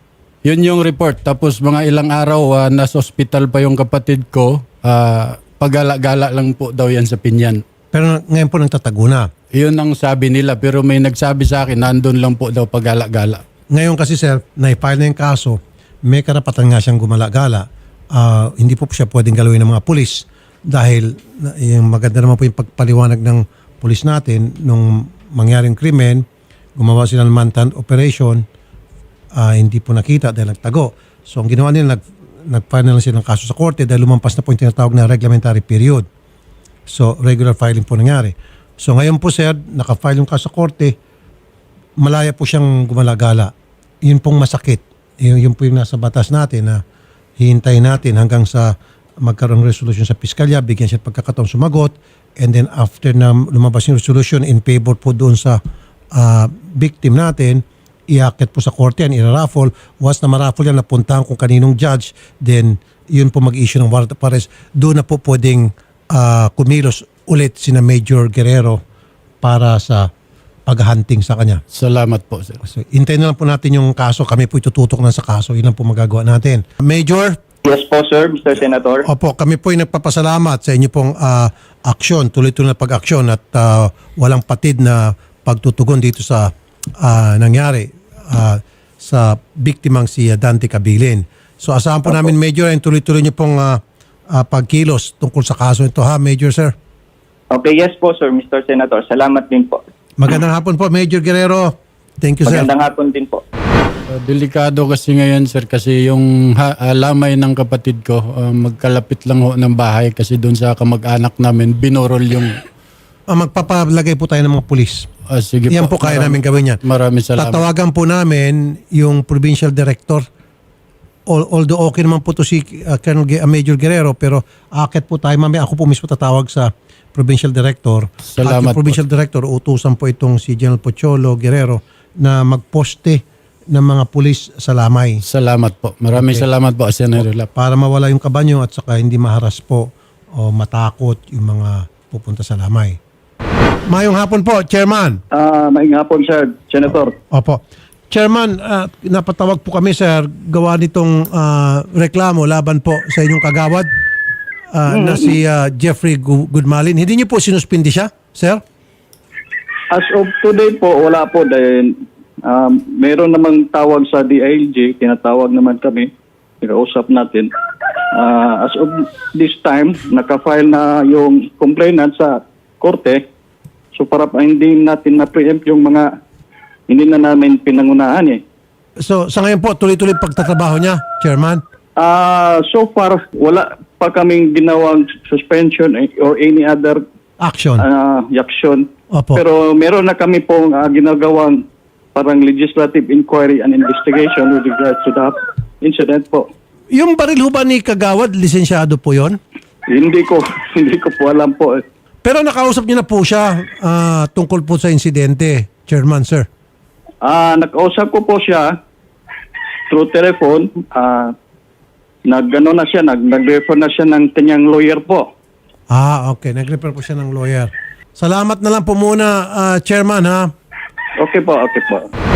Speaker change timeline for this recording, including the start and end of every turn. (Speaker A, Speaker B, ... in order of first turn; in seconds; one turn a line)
Speaker A: 0.5-7.6
Speaker B: 7.9-9.3
Speaker A: 9.5-13.4
Speaker B: 13.7-26.2
Speaker B: 26.8-28.4
Speaker B: 29.4-36.1
Speaker B: 36.9-41.0
Speaker B: 42.0-43.5
Speaker B: 44.0-46.8
Speaker B: 47.4-55.6
Speaker B: 56.1-68.8
Speaker B: 69.4-70.1
Speaker B: 70.7-71.6
Speaker A: 71.7-72.6
Speaker B: 72.7-77.4
Speaker C: 77.7-79.0
Speaker B: 79.1-93.8
Speaker B: 94.3-96.7
Speaker C: 97.5-99.8
Speaker B: 100.2-102.7
Speaker C: 102.5-103.4
Speaker A: 104.1-112.5
Speaker B: 113.3-115.1
Speaker A: 115.3-117.6
Speaker B: 115.7-116.8
Speaker B: 117.4-120.2
Speaker B: 121.3-133.2
Speaker A: 128.3-129.0
Speaker B: 133.7-135.2
Speaker A: 135.2-137.5
Speaker B: 137.6-143.0
Speaker B: 143.9-145.2
Speaker D: 145.3-147.2
Speaker B: 147.3-153.9
Speaker B: 154.7-158.6
Speaker D: 154.9-155.4
Speaker D: 159.9-161.9
Speaker D: 162.5-166.1
Speaker D: 166.6-167.5
Speaker D: 168.1-173.2
Speaker D: 174.0-176.1
Speaker D: 176.9-178.4
Speaker B: 179.0-181.6
Speaker D: 182.0-187.0
Speaker B: 187.4-187.8
Speaker D: 187.8-191.6
Speaker B: 189.1-189.4
Speaker D: 192.2-196.5
Speaker B: 196.9-199.4
Speaker D: 199.9-201.8
Speaker B: 202.2-206.5
Speaker D: 207.2-208.7
Speaker D: 209.9-211.3
Speaker D: 212.3-215.3
Speaker B: 215.9-220.5
Speaker D: 221.2-222.1